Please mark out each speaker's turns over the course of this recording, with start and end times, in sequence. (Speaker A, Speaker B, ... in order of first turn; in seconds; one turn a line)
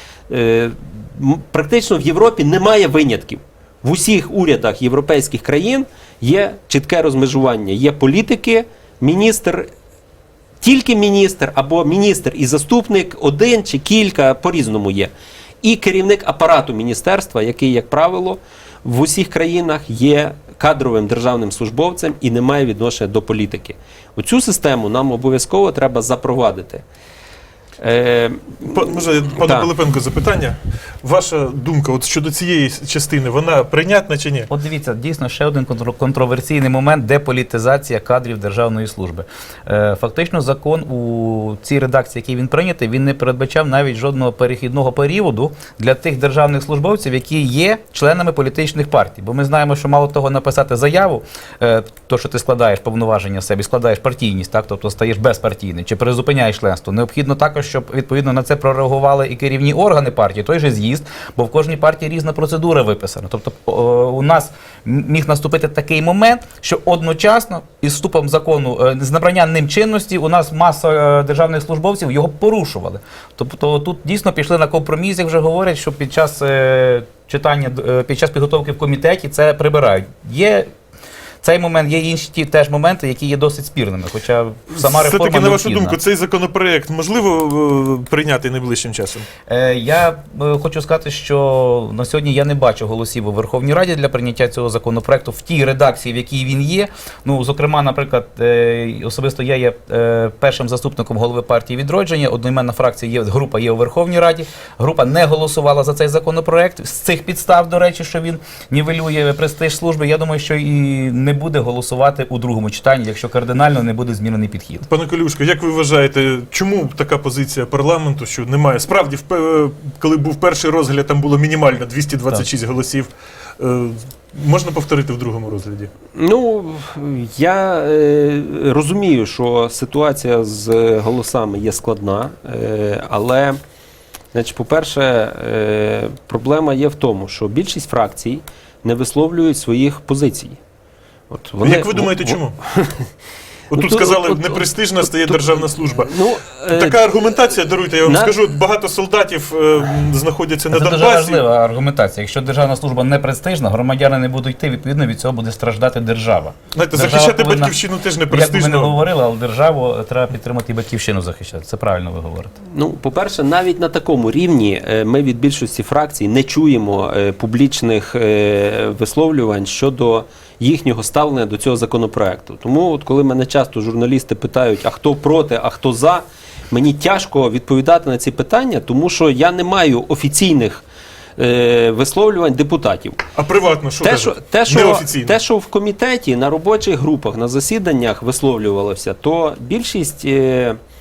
Speaker A: 0.3-9.7
Speaker A: 10.6-15.1
Speaker A: 15.6-26.8
Speaker A: 27.8-29.7
Speaker B: 28.7-34.5
Speaker C: 34.5-80.7
Speaker C: 81.4-86.0
Speaker B: 84.7-89.3
Speaker C: 89.5-114.8
Speaker B: 114.8-125.9
Speaker A: 126.2-133.6
Speaker A: 134.3-140.6
Speaker A: 141.3-143.1
Speaker B: 141.6-142.6
Speaker B: 143.7-151.4
Speaker A: 143.7-147.0
Speaker A: 148.1-148.3
Speaker C: 150.7-162.5
Speaker B: 156.7-159.0
Speaker A: 162.7-180.8
Speaker A: 181.4-183.2
Speaker B: 183.3-185.4
Speaker A: 184.0-190.8